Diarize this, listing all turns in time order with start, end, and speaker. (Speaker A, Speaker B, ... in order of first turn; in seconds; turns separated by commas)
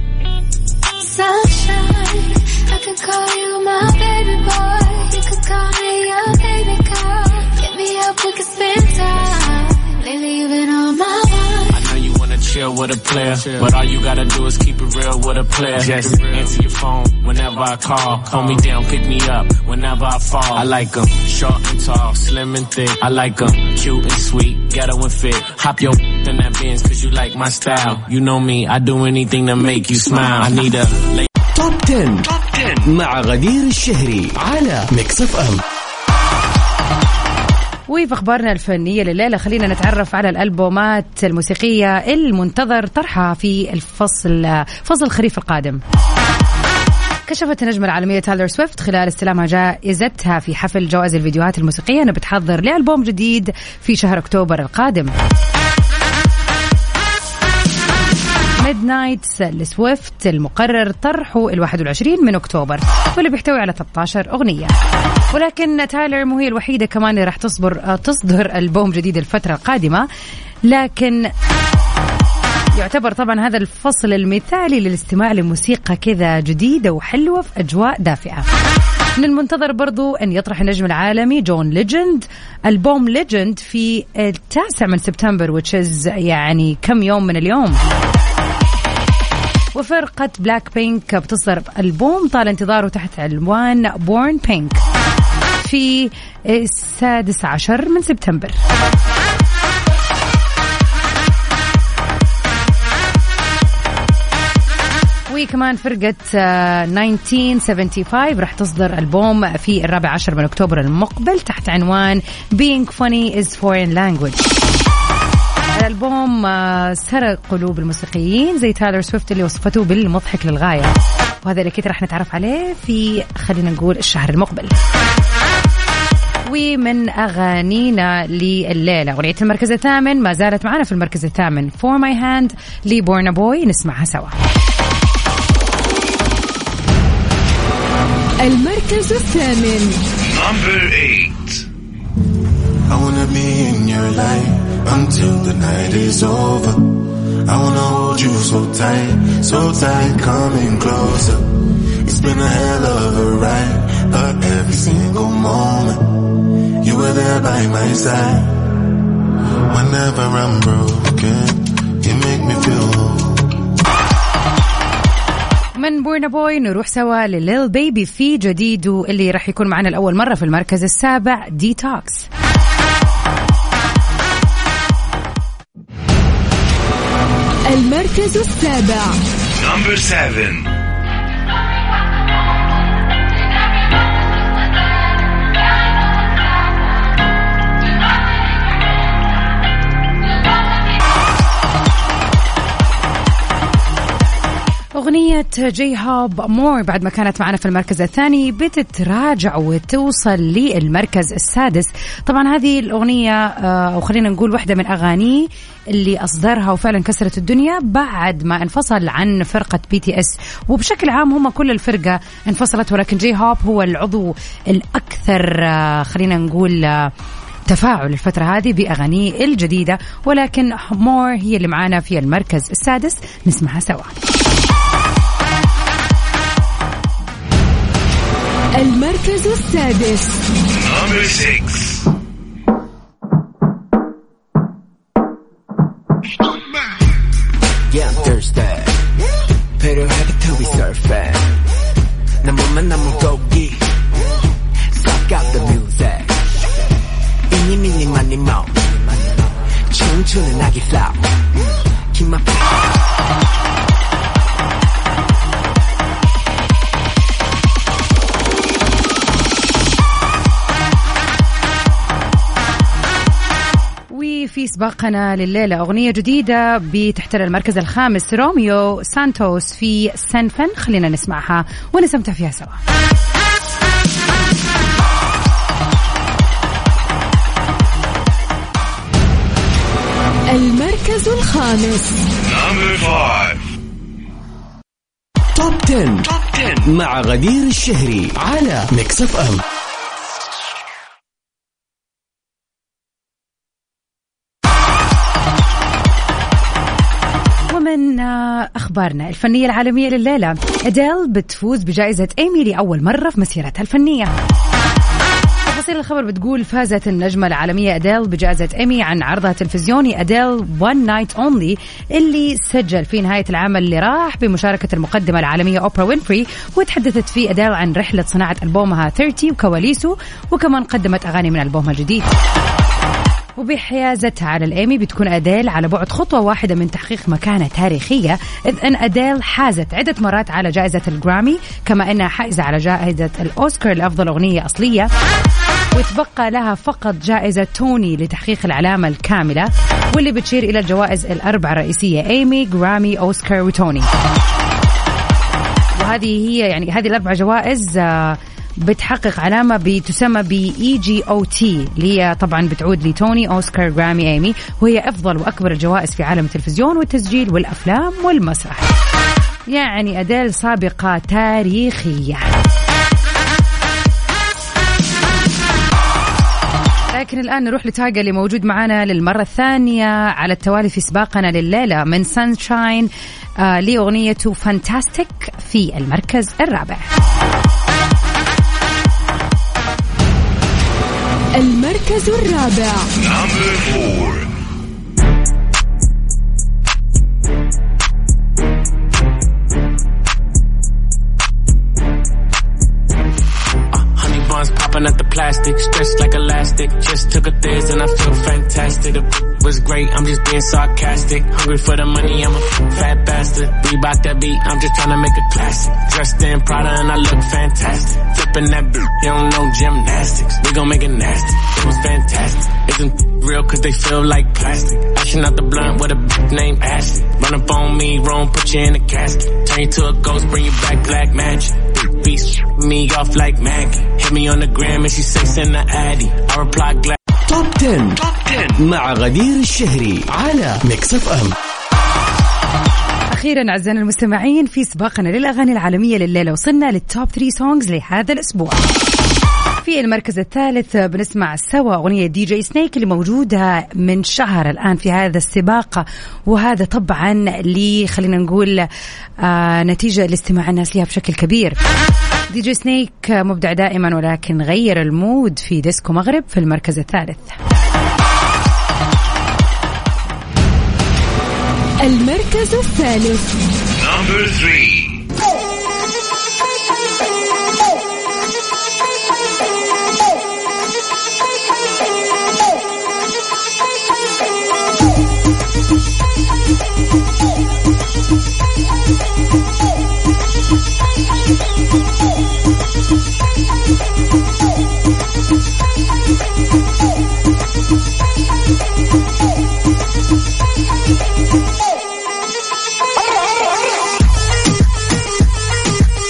Speaker A: 1.0-11.7, Speaker B: 11.7-31.3, Speaker C: 31.5-35.6, Speaker D: 37.9-45.8, Speaker D: 47.2-55.1, Speaker D: 58.6-64.7, Speaker D: 65.3-70.1, Speaker D: 70.7-71.3, Speaker D: 72.7-78.5, Speaker D: 79.2-87.8, Speaker D: 89.7-94.8, Speaker D: 95.6-98.6, Speaker D: 105.3-114.4, Speaker D: 115.8-124.7, Speaker D: 126.5-134.3, Speaker E: 138.4-140.0, Speaker F: 140.3-141.6, Speaker G: 142.9-158.8, Speaker G: 159.7-163.5, Speaker D: 165.8-172.3, Speaker E: 177.7-179.2, Speaker F: 179.6-180.7, Speaker D: 195.0-217.1, Speaker D: 217.7-224.1, Speaker E: 228.8-230.4, Speaker F: 230.8-231.9, Speaker H: 237.9-239.0, Speaker H: 239.8-241.5, Speaker H: 242.4-243.9, Speaker H: 244.9-246.4, Speaker H: 247.5-249.2, Speaker H: 249.9-251.2, Speaker H: 252.1-252.7, Speaker D: 264.1-272.8, Speaker E: 280.5-282.2, Speaker F: 282.4-283.6, Speaker C: 285.5-289.6, Speaker D: 297.7-304.3, Speaker D: 305.6-322.3, Speaker D: 323.6-335.1, Speaker D: 335.9-344.1, Speaker D: 346.0-358.9, Speaker D: 359.7-362.5, Speaker D: 367.1-373.1, Speaker D: 373.6-377.1, Speaker E: 381.6-383.1, Speaker F: 383.2-384.4, Speaker B: 393.9-427.2, Speaker C: 427.5-431.6, Speaker D: 433.3-438.8, Speaker D: 439.8-448.9, Speaker D: 449.4-451.8, Speaker D: 452.5-457.6, Speaker E: 462.0-463.5, Speaker F: 464.0-465.2